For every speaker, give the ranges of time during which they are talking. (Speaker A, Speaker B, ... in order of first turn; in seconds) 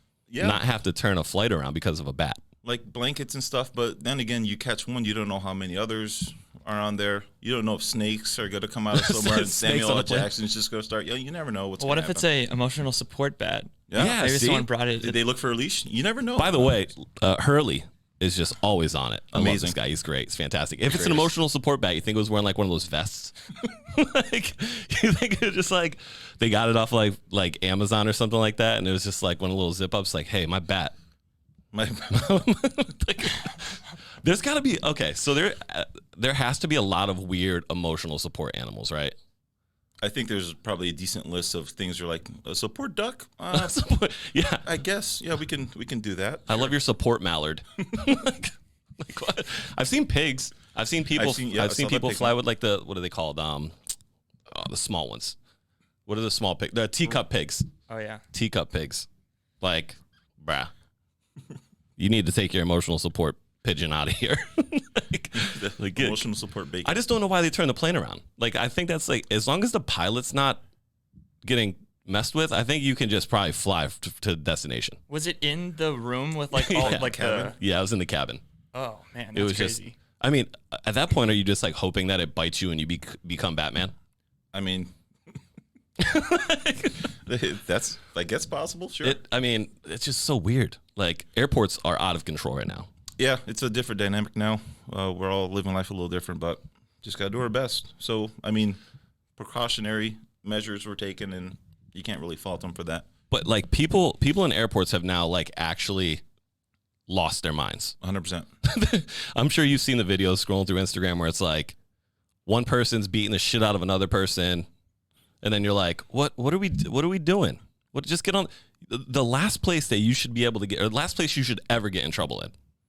Speaker A: 0.3-0.6, 2.6-12.3, 13.9-14.2, 15.0-16.8, 19.3-19.8, 20.9-21.3, 31.7-32.2, 40.0-43.8, 44.6-46.7, 51.1-52.4, 65.3-67.0, 76.8-77.5, 84.5-84.9, 87.1-89.2, 93.2-98.8, 99.4-103.0, 108.0-108.5
Speaker B: 0.4-2.4, 8.9-10.3, 13.9-14.7, 16.4-30.9, 32.1-39.1, 43.5-44.7, 46.5-53.7, 54.5-55.4, 56.0-57.7, 58.3-59.1, 59.6-60.7, 62.0-66.2, 66.8-70.6, 71.4-75.0, 76.5-78.4, 79.3-83.9, 86.0-87.1, 89.0-92.9, 103.3-106.2, 107.1-108.0, 108.6-111.8, 112.5-114.7, 115.4-122.5
Speaker C: 11.8-15.2, 57.9-58.2, 75.1-77.6, 78.7-80.0